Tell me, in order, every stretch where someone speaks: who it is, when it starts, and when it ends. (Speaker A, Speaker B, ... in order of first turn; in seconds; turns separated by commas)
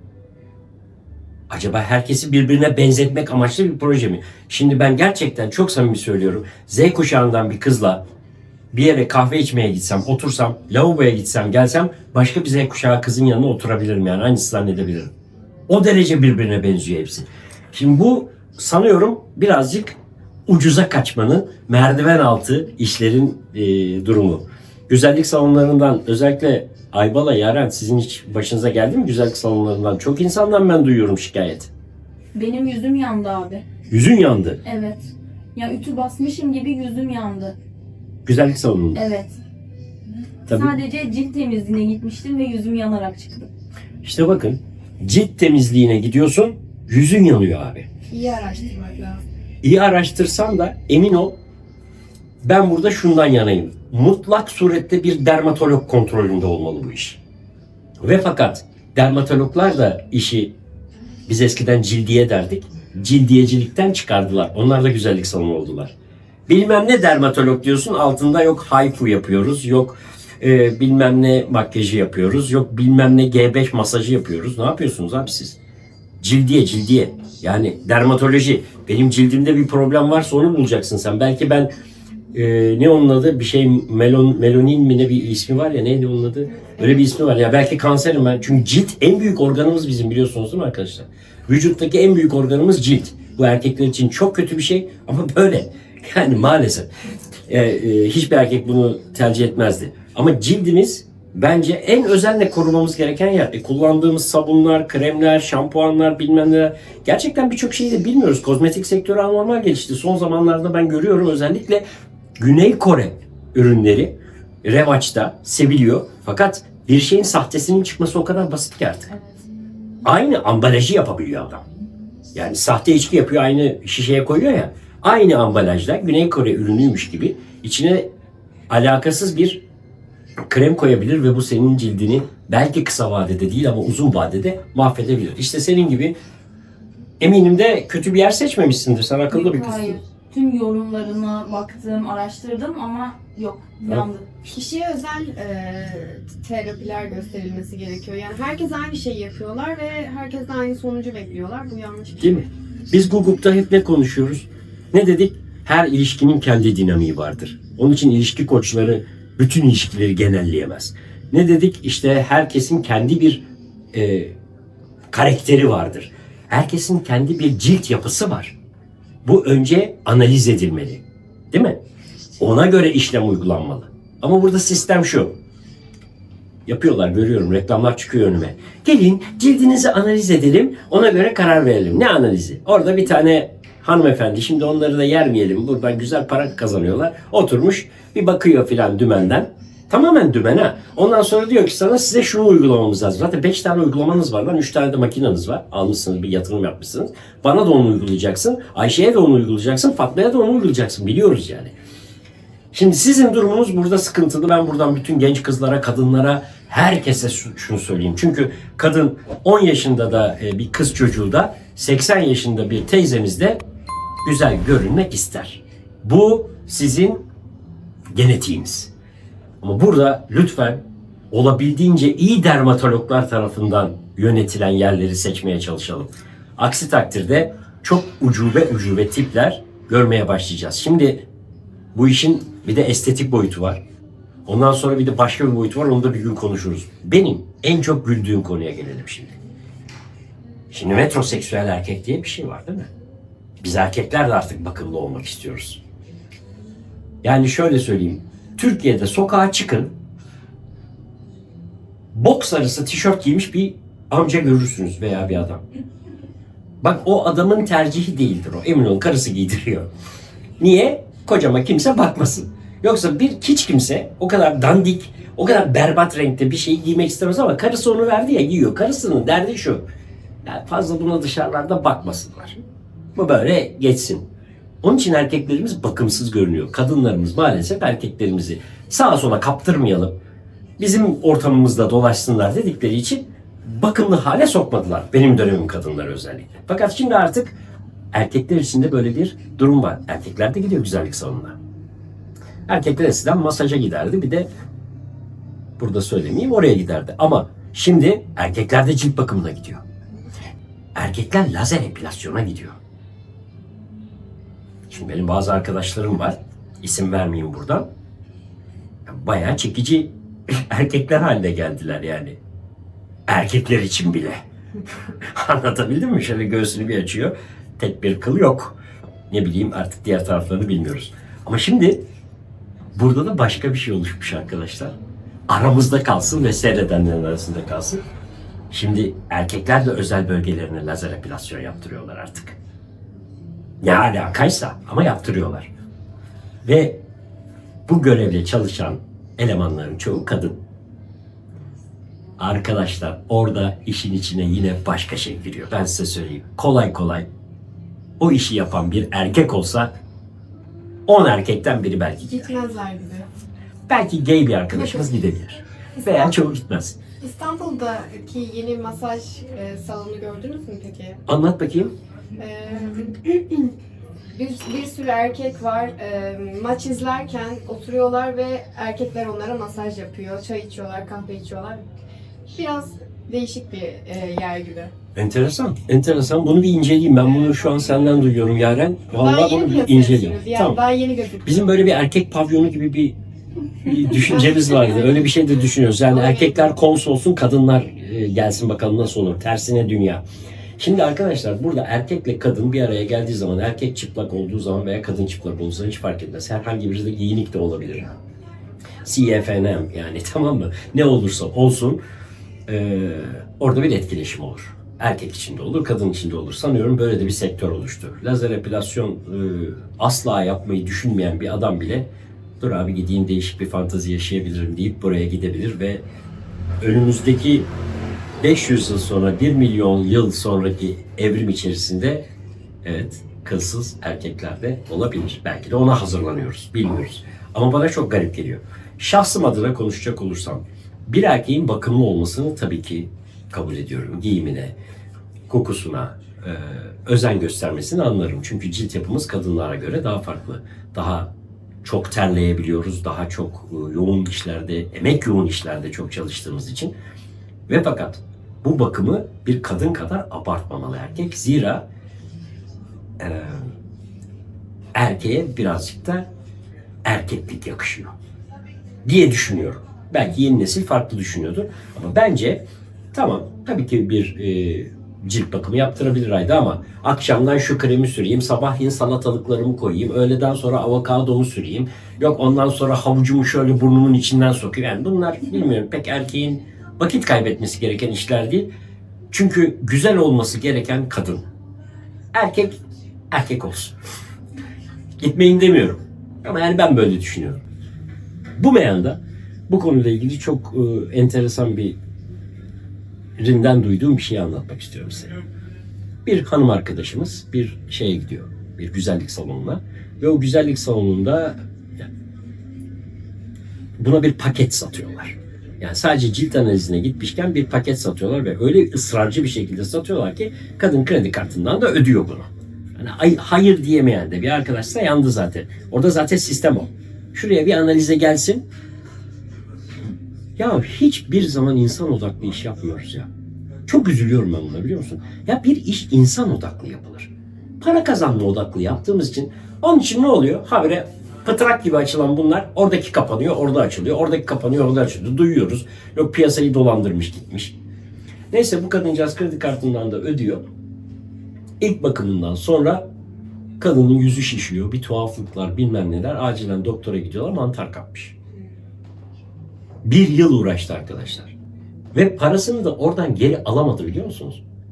Speaker A: 1.5-8.0, Speaker A: 8.7-15.1, Speaker A: 15.7-19.9, Speaker A: 20.5-31.7, Speaker B: 32.3-33.6, Speaker A: 33.9-34.6, Speaker B: 34.6-35.0, Speaker B: 35.5-37.5, Speaker A: 38.2-39.0, Speaker B: 38.9-39.3, Speaker A: 40.5-40.7, Speaker B: 40.5-43.5, Speaker A: 44.0-47.9, Speaker C: 48.1-49.2, Speaker A: 49.6-51.3, Speaker A: 52.4-57.2, Speaker A: 58.0-60.5, Speaker A: 61.3-65.9, Speaker A: 66.5-75.6, Speaker A: 76.2-81.7, Speaker A: 82.3-96.9, Speaker A: 97.5-111.8, Speaker A: 112.4-119.1, Speaker A: 120.0-121.6, Speaker A: 122.3-128.1, Speaker A: 128.7-129.6, Speaker A: 130.5-136.2, Speaker A: 137.2-140.0, Speaker B: 139.3-144.3, Speaker C: 144.5-152.4, Speaker A: 152.2-164.3, Speaker A: 165.1-168.6, Speaker A: 169.2-171.8, Speaker A: 172.4-175.3, Speaker A: 176.7-201.7, Speaker A: 202.7-213.6, Speaker A: 214.2-217.2, Speaker A: 218.1-218.9, Speaker A: 219.6-231.2, Speaker A: 231.9-233.8, Speaker A: 234.4-239.4, Speaker A: 240.7-242.9, Speaker A: 243.6-245.8, Speaker A: 247.2-249.9, Speaker A: 252.1-255.6, Speaker A: 256.8-259.9, Speaker A: 260.6-269.8, Speaker A: 270.4-272.6, Speaker A: 273.1-274.2, Speaker A: 274.8-280.1, Speaker A: 280.8-287.6, Speaker A: 288.1-291.6, Speaker A: 292.7-294.5, Speaker A: 295.8-299.8, Speaker A: 300.9-302.8, Speaker A: 304.9-307.9, Speaker A: 309.1-312.4, Speaker A: 313.3-314.4, Speaker A: 315.3-318.8, Speaker A: 319.3-322.0, Speaker A: 322.9-324.9, Speaker A: 325.5-328.0, Speaker A: 328.7-332.6, Speaker A: 333.8-335.7, Speaker A: 336.6-337.0, Speaker A: 337.9-340.6, Speaker A: 342.4-347.3, Speaker A: 348.2-349.9, Speaker A: 351.1-352.4, Speaker C: 352.2-353.3, Speaker A: 353.9-357.0, Speaker C: 354.7-355.0, Speaker C: 356.0-356.3, Speaker C: 357.2-361.2, Speaker A: 361.3-361.9, Speaker C: 362.4-363.7, Speaker C: 364.3-371.8, Speaker C: 372.5-374.9, Speaker A: 375.1-380.8, Speaker C: 379.2-381.8, Speaker A: 381.4-383.2, Speaker A: 383.8-390.2, Speaker C: 384.3-385.1, Speaker C: 386.1-386.5, Speaker A: 390.8-398.1, Speaker A: 399.0-402.0, Speaker A: 402.7-412.1, Speaker A: 412.6-416.0, Speaker A: 416.8-417.7, Speaker A: 418.4-422.2, Speaker A: 422.8-434.7, Speaker A: 435.5-441.3, Speaker A: 441.8-446.9, Speaker A: 447.7-451.9, Speaker A: 453.2-453.7, Speaker A: 454.9-456.2, Speaker A: 457.0-458.1, Speaker A: 459.0-478.7, Speaker A: 479.3-481.4, Speaker A: 482.3-482.7, Speaker A: 483.3-483.9, Speaker A: 485.2-487.6, Speaker A: 488.6-492.0, Speaker A: 493.4-495.4, Speaker A: 496.2-502.1, Speaker A: 504.0-518.6, Speaker A: 520.6-523.3, Speaker A: 523.9-537.7, Speaker A: 538.5-540.6, Speaker A: 541.8-543.0, Speaker A: 543.8-548.3, Speaker A: 550.0-551.5, Speaker A: 552.1-554.6